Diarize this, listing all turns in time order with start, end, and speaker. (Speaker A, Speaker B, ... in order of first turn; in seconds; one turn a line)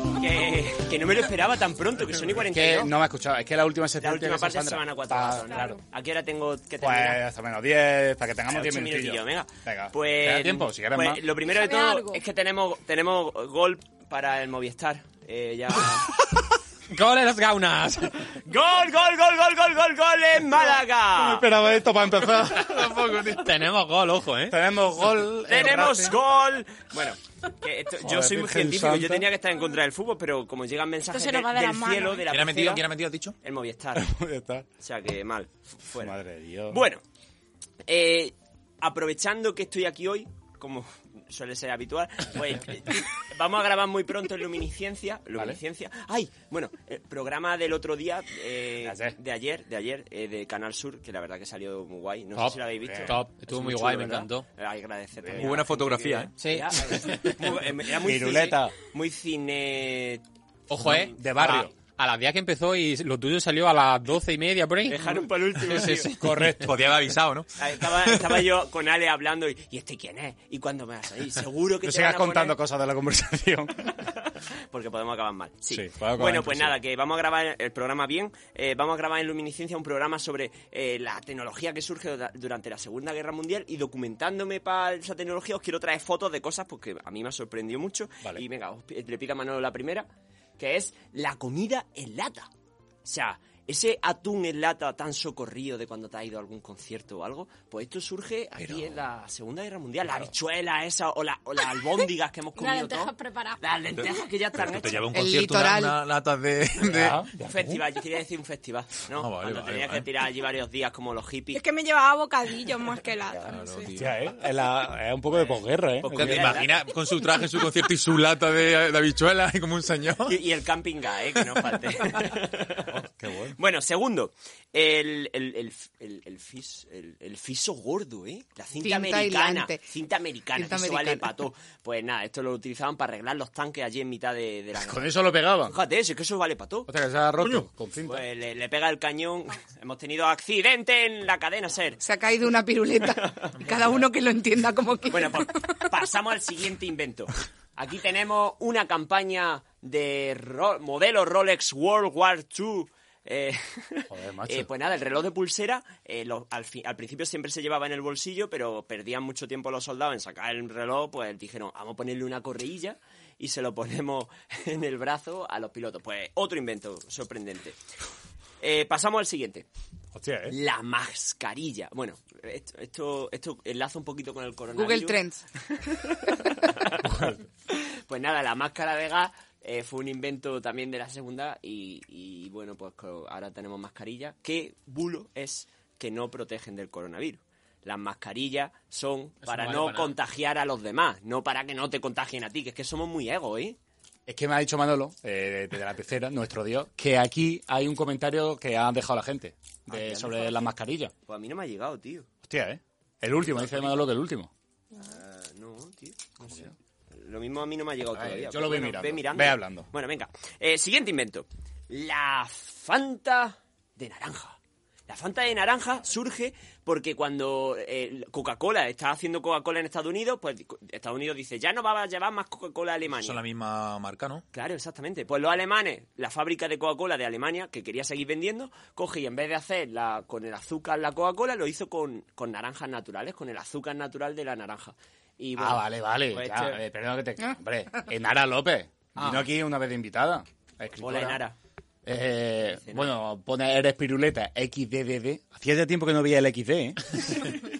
Speaker A: 0.1-2.9
Speaker B: 2.4-5.8
Speaker A: 4.0-7.2
Speaker B: 6.8-11.2
Speaker A: 8.5-16.1
Speaker C: 11.5-12.2
Speaker D: 16.9-18.3
Speaker A: 18.4-21.4
Speaker B: 21.1-22.9
Speaker E: 22.5-23.5
Speaker D: 23.3-24.6
Speaker B: 24.5-26.1
Speaker A: 25.5-32.8
Speaker B: 28.0-29.3
Speaker C: 31.1-32.2
Speaker E: 32.3-33.3
Speaker A: 33.4-34.1
Speaker B: 33.9-34.7
Speaker A: 34.8-36.1
Speaker B: 36.0-36.8
Speaker A: 36.7-37.0
Speaker A: 37.9-60.2
Speaker B: 48.8-49.2
Speaker D: 52.4-54.5
Speaker B: 52.7-53.2
Speaker B: 55.2-55.6
Speaker E: 55.4-56.3
Speaker D: 56.4-57.4
Speaker B: 58.0-58.7
Speaker D: 60.7-66.5
Speaker A: 60.9-61.6
Speaker B: 60.9-61.7
Speaker A: 64.9-66.1
Speaker B: 66.2-66.7
Speaker E: 66.5-68.4
Speaker A: 67.6-72.6
Speaker B: 71.8-74.0
Speaker A: 74.0-90.1
Speaker B: 75.7-76.8
Speaker A: 90.6-92.5
Speaker A: 93.0-105.0
Speaker E: 98.6-98.9
Speaker C: 102.6-103.6
Speaker E: 103.9-107.2
Speaker F: 105.1-106.0
Speaker B: 106.8-107.7
Speaker A: 107.5-111.6
Speaker E: 109.1-110.0
Speaker C: 111.5-113.9
Speaker E: 113.4-114.1
Speaker B: 113.9-116.6
Speaker A: 116.0-116.8
Speaker E: 116.1-120.4
Speaker A: 120.2-123.0
Speaker B: 122.9-123.6
Speaker A: 123.6-135.1
Speaker F: 128.8-129.8
Speaker F: 130.5-131.3
Speaker B: 134.8-135.8
Speaker A: 135.7-136.9
Speaker B: 136.9-138.2
Speaker A: 138.1-142.0
Speaker F: 142.0-145.5
Speaker A: 143.2-143.5
Speaker A: 145.1-167.8
Speaker B: 154.1-154.7
Speaker A: 168.6-169.7
Speaker B: 170.1-170.6
Speaker A: 170.5-175.2
Speaker F: 174.7-175.4
Speaker A: 176.0-177.1
Speaker B: 177.0-177.4
Speaker A: 177.7-193.8
Speaker D: 189.4-190.1
Speaker B: 194.3-201.1
Speaker A: 199.9-200.6
Speaker A: 201.3-202.3
Speaker B: 202.4-204.5
Speaker A: 203.4-204.0
Speaker A: 205.0-214.6
Speaker B: 206.4-206.7
Speaker B: 208.1-209.9
Speaker A: 215.1-223.4
Speaker E: 223.1-224.4
Speaker A: 224.5-236.8
Speaker B: 235.6-241.4
Speaker A: 241.0-241.6
Speaker B: 242.0-247.5
Speaker A: 242.7-243.1